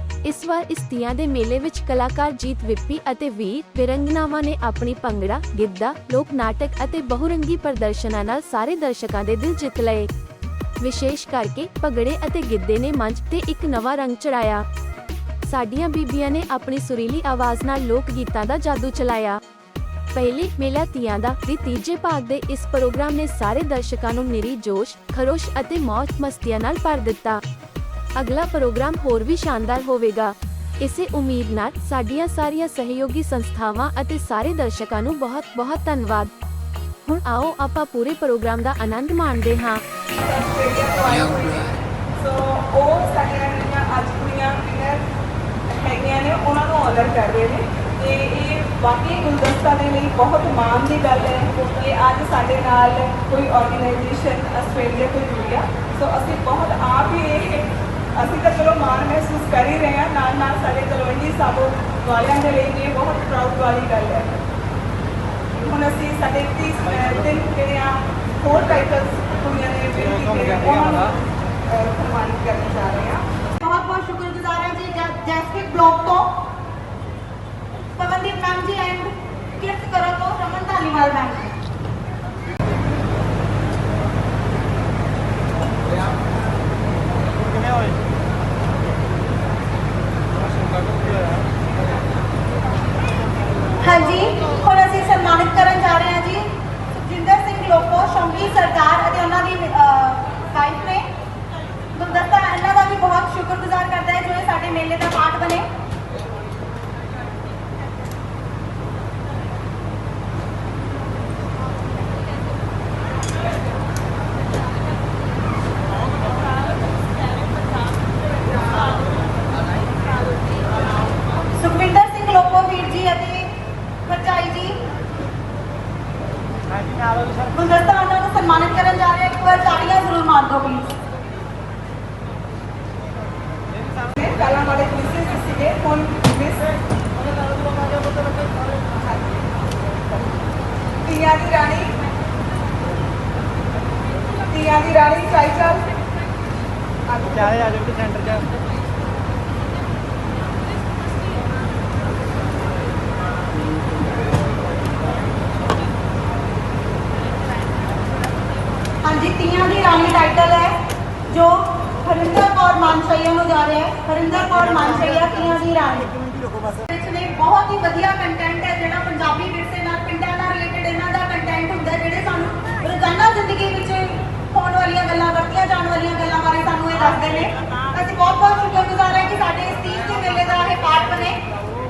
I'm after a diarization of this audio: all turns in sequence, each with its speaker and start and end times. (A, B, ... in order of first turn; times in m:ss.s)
0:00.2-0:10.1 A
0:10.8-0:14.6 A
0:15.5-0:19.4 A
0:20.1-0:27.4 A
0:28.2-0:36.3 A
0:37.0-0:39.8 A
0:40.2-0:45.0 B
0:45.7-1:04.4 B
1:05.6-1:11.2 B
1:06.9-1:07.2 C
1:10.0-1:11.2 C
1:11.7-1:13.2 B
1:13.6-1:16.3 D
1:18.0-1:21.5 D
1:27.4-1:28.0 C
1:30.4-1:31.4 C
1:33.8-1:36.5 D
1:37.0-1:41.1 D
1:41.9-1:45.7 D
2:01.6-2:03.5 D
2:04.1-2:04.8 D
2:06.7-2:07.6 C
2:07.5-2:11.0 D
2:13.8-2:14.1 C
2:14.2-2:16.8 B
2:17.3-2:18.8 C
2:19.0-2:19.3 B
2:21.0-2:21.9 B
2:24.5-2:25.8 B
2:27.1-2:27.6 B
2:27.2-2:28.5 C
2:39.0-2:40.8 D
2:41.3-2:46.2 D
2:46.9-3:01.4 D